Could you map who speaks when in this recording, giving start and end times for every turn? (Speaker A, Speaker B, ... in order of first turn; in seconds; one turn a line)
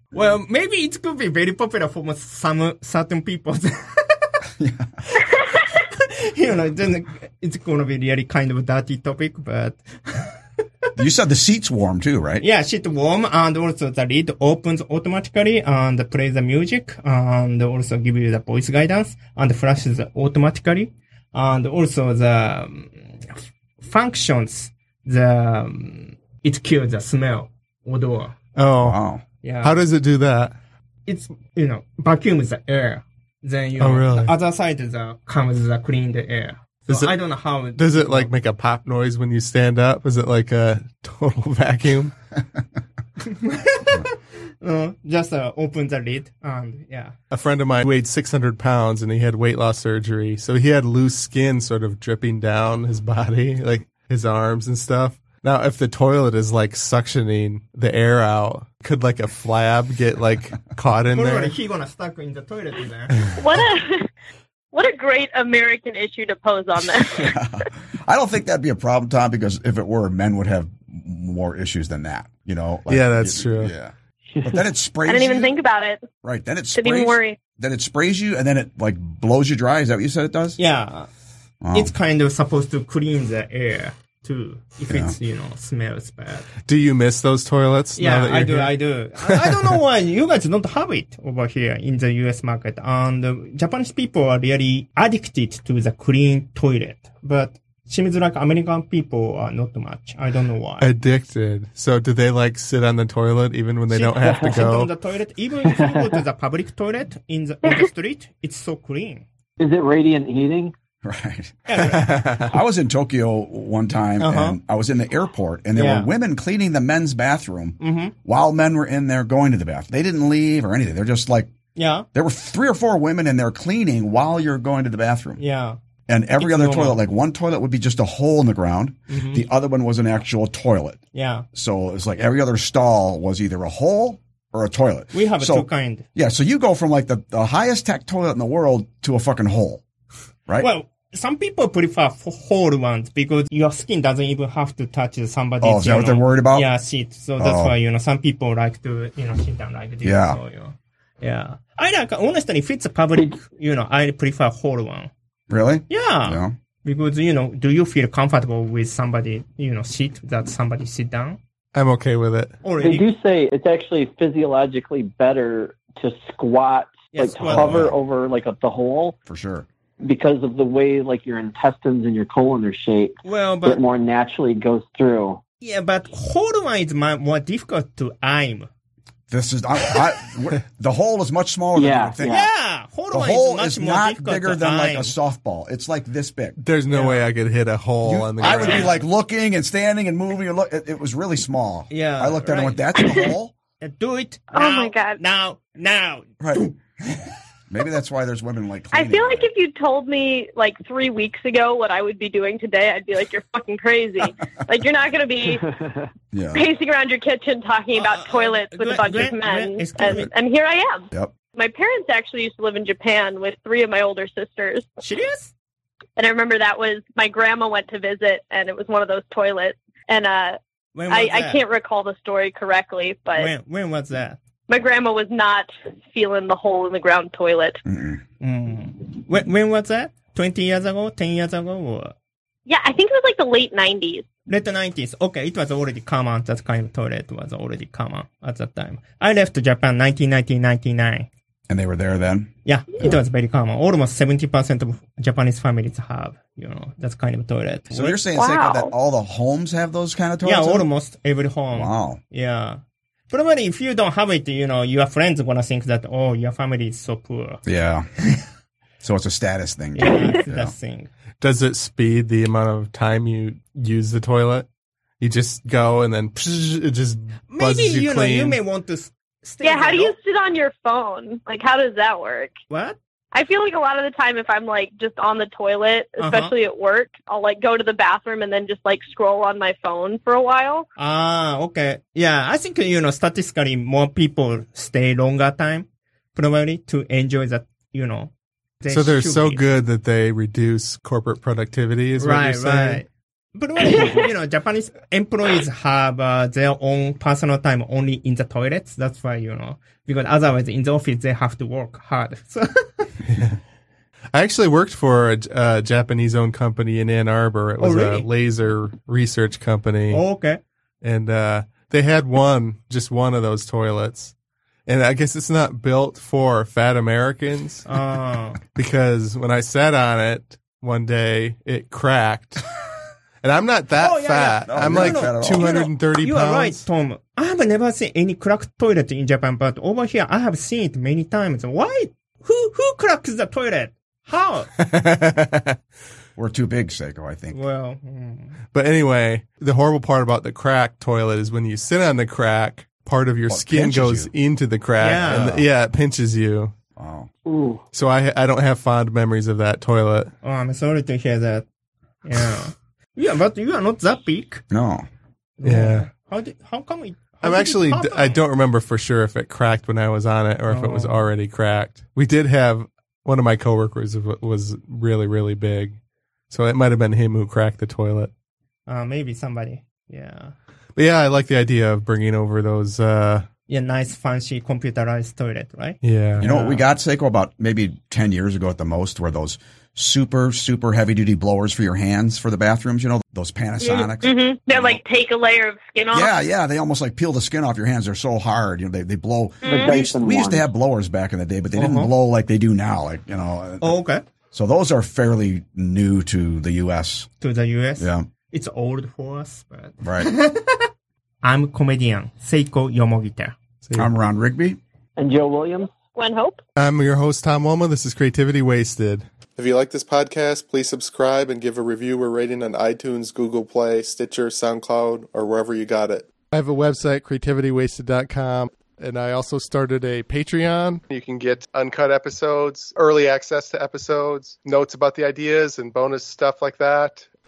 Speaker A: 0.1-4.4
Speaker B: 4.6-4.9
Speaker A: 5.2-10.4
Speaker B: 10.9-12.4
Speaker A: 12.4-28.4
Speaker C: 28.6-29.0
Speaker B: 28.8-29.2
Speaker A: 29.4-29.8
Speaker C: 29.6-30.5
Speaker A: 31.1-38.3
Speaker C: 33.8-34.3
Speaker C: 36.9-37.1
Speaker C: 37.7-42.1
Speaker A: 43.2-47.1
Speaker C: 47.3-61.5
Speaker A: 61.1-63.2
Speaker D: 63.3-64.1
Speaker D: 64.7-67.3
Speaker B: 66.8-73.9
Speaker C: 72.9-73.7
Speaker E: 74.3-74.6
Speaker B: 74.4-75.5
Speaker D: 75.0-76.0
Speaker B: 76.2-80.6
Speaker D: 76.7-77.4
Speaker A: 80.6-81.1
Speaker B: 81.6-81.9
Speaker A: 81.7-86.5
Speaker B: 84.9-85.1
Speaker C: 86.6-89.7
Speaker A: 88.0-100.9
Speaker C: 100.8-104.9
Speaker A: 103.9-109.2
Speaker E: 105.6-106.2
Speaker E: 109.6-110.7
Speaker B: 111.0-121.5
Speaker A: 111.7-112.1
Speaker C: 111.9-112.5
Speaker A: 114.2-114.6
Speaker A: 115.7-116.1
Speaker A: 117.8-118.1
Speaker A: 121.8-122.1
Speaker B: 122.1-125.4
Speaker A: 125.4-125.8
Speaker B: 126.1-131.0
Speaker A: 126.4-127.0
Speaker A: 129.1-129.4
Speaker A: 131.1-131.5
Speaker B: 131.5-139.8
Speaker A: 135.1-136.0
Speaker A: 140.6-155.1
Speaker B: 145.6-146.7
Speaker B: 147.4-147.8
Speaker B: 150.0-150.4
Speaker B: 155.5-156.5
Speaker A: 155.9-161.4
Speaker C: 161.7-162.5
Speaker A: 162.6-163.1
Speaker E: 162.8-169.2
Speaker A: 167.1-167.9
Speaker B: 167.4-167.9
Speaker B: 169.3-169.7
Speaker E: 170.0-175.4
Speaker A: 173.2-173.8
Speaker A: 175.6-178.7
Speaker B: 179.3-182.4
Speaker E: 181.7-182.4
Speaker A: 182.2-185.1
Speaker B: 183.1-186.6
Speaker C: 186.6-189.0
Speaker A: 186.9-187.3
Speaker B: 188.0-193.5
Speaker A: 188.4-188.9
Speaker A: 191.9-192.8
Speaker D: 193.0-193.3
Speaker A: 193.8-197.3
Speaker D: 194.5-195.2
Speaker B: 196.4-196.7
Speaker B: 197.7-199.5
Speaker D: 198.9-205.7
Speaker B: 206.3-206.6
Speaker D: 206.5-214.9
Speaker A: 207.9-210.3
Speaker A: 215.0-215.5
Speaker D: 216.2-223.5
Speaker A: 220.9-221.6
Speaker A: 223.3-224.4
Speaker D: 224.7-227.8
Speaker B: 227.9-228.2
Speaker A: 228.4-232.1
Speaker D: 232.7-234.2
Speaker A: 234.5-241.3
Speaker B: 241.7-243.2
Speaker A: 242.6-248.2
Speaker B: 247.9-250.8
Speaker D: 248.3-248.9
Speaker A: 250.4-257.6
Speaker B: 251.7-252.2
Speaker B: 257.6-258.1
Speaker B: 259.0-260.7
Speaker A: 259.9-261.1
Speaker D: 260.0-260.3
Speaker C: 261.4-264.6
Speaker C: 265.2-268.6
Speaker A: 267.5-270.1
Speaker D: 269.6-272.5
Speaker A: 272.7-273.0
Speaker D: 273.3-280.9
Speaker A: 276.2-276.5
Speaker A: 281.0-289.6
Speaker C: 288.9-293.0
Speaker A: 292.2-303.2
Speaker C: 303.3-303.6
Speaker C: 304.3-310.2
Speaker A: 307.8-308.3
Speaker A: 310.1-310.6
Speaker C: 311.0-314.3
Speaker C: 314.9-317.9
Speaker A: 317.9-318.6
Speaker C: 318.7-322.6
Speaker C: 323.4-326.8
Speaker A: 324.0-334.7
Speaker B: 324.7-325.8
Speaker C: 334.8-335.8
Speaker B: 336.4-337.6
Speaker A: 337.5-338.6
Speaker C: 338.7-346.7
Speaker B: 343.5-344.3
Speaker A: 345.0-345.5
Speaker B: 345.3-345.7
Speaker B: 346.9-347.3
Speaker E: 347.4-347.8
Speaker C: 347.9-350.3
Speaker A: 350.4-351.6
Speaker A: 352.2-354.6
Speaker B: 354.7-355.1
Speaker A: 355.6-358.4
Speaker C: 355.6-356.1
Speaker C: 357.4-366.0
Speaker A: 360.7-361.2
Speaker C: 366.5-368.3
Speaker A: 368.9-370.5
Speaker C: 370.9-373.4
Speaker A: 373.7-376.8
Speaker C: 376.0-376.5
Speaker B: 376.4-385.0
Speaker D: 383.8-386.3
Speaker B: 386.1-394.0
Speaker D: 389.6-390.0
Speaker E: 389.6-390.7
Speaker A: 391.8-392.1
Speaker A: 393.8-394.2
Speaker B: 394.5-397.3
Speaker A: 397.4-400.9
Speaker B: 398.0-398.2
Speaker B: 400.0-400.3
Speaker A: 401.4-403.6
Speaker C: 403.8-404.1
Speaker B: 403.9-404.8
Speaker E: 405.2-405.9
Speaker D: 406.1-406.6
Speaker C: 406.8-427.3